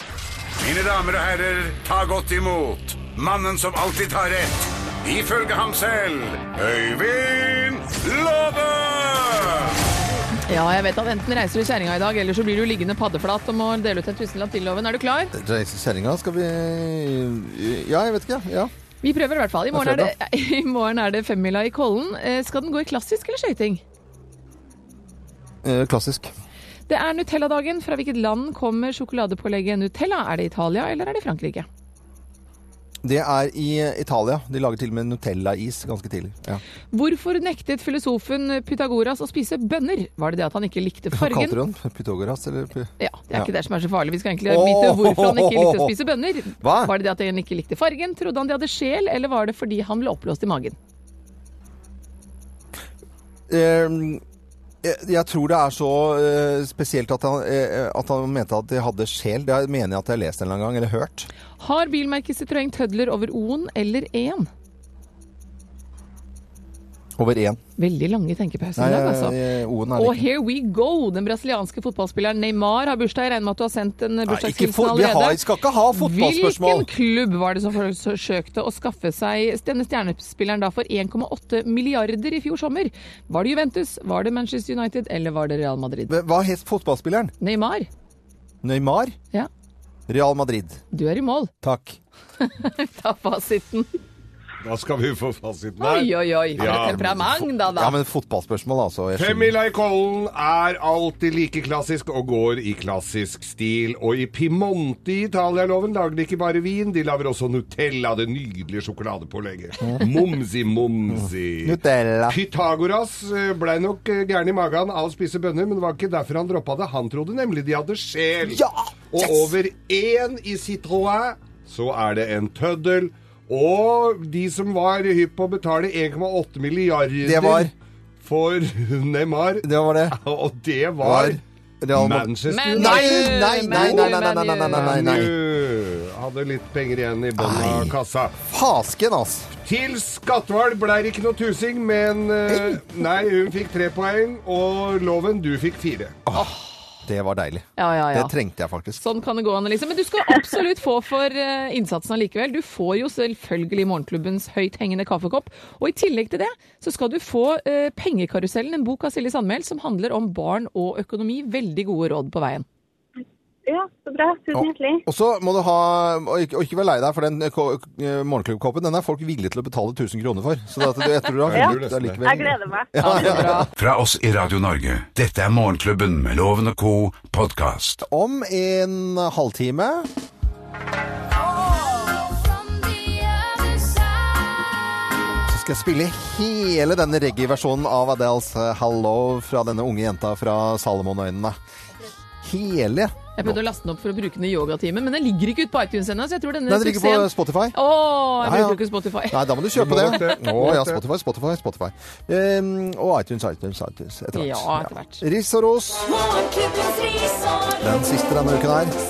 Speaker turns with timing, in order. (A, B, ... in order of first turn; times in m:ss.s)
0:00.6-0:09.7 A
0:10.5-0:15.3 B
0:15.3-0:18.7 C
0:19.0-0:23.8 B
0:19.7-0:20.1 C
0:25.6-0:26.3 C
0:26.9-0:31.7 B
0:33.0-0:36.6 C
0:36.9-0:41.6 B
0:41.1-0:43.5 C
0:43.0-0:50.8 B
0:44.5-0:45.9 C
0:46.6-0:46.9 C
0:53.5-0:54.2 C
0:54.8-1:01.3 C
1:01.6-1:04.5 B
1:07.2-1:07.6 C
1:07.8-1:09.4 B
1:08.8-1:10.2 C
1:10.0-1:15.4 B
1:14.3-1:16.9 C
1:15.9-1:26.1 B
1:26.1-1:27.3 C
1:27.4-1:27.9 B
1:28.6-1:29.2 C
1:30.1-1:30.8 C
1:30.9-1:31.5 B
1:31.6-1:32.0 C
1:32.4-1:33.9 B
1:34.6-1:37.2 D
1:35.8-1:38.0 B
1:36.6-1:39.6 C
1:39.2-2:11.4 D
1:49.8-1:50.1 C
1:51.1-1:52.4 C
1:58.4-1:59.5 C
2:07.2-2:07.7 C
2:09.6-2:10.2 C
2:11.0-2:15.4 C
2:11.9-2:14.2 D
2:12.5-2:15.0 B
2:14.7-2:18.4 D
2:17.4-2:18.0 C
2:18.5-2:19.5 C
2:19.6-2:26.2 D
2:22.5-2:22.8 C
2:26.3-2:29.0 C
2:27.8-2:28.3 B
2:29.0-2:42.6 B
2:43.6-2:45.0 E
2:44.5-2:53.7 C
2:51.4-2:52.2 D
2:51.5-2:53.4 E
2:53.0-2:53.7 B
2:53.8-2:58.0 A
2:58.0-3:00.1 C
3:01.4-3:04.8 F
3:05.4-3:11.6 C
3:12.4-3:13.6 C
3:13.4-3:19.6 B
3:16.7-3:17.8 C
3:18.4-3:26.1 C
3:19.7-3:21.0 D
3:24.3-3:25.2 B
3:26.0-3:28.0 F
3:27.8-3:29.0 C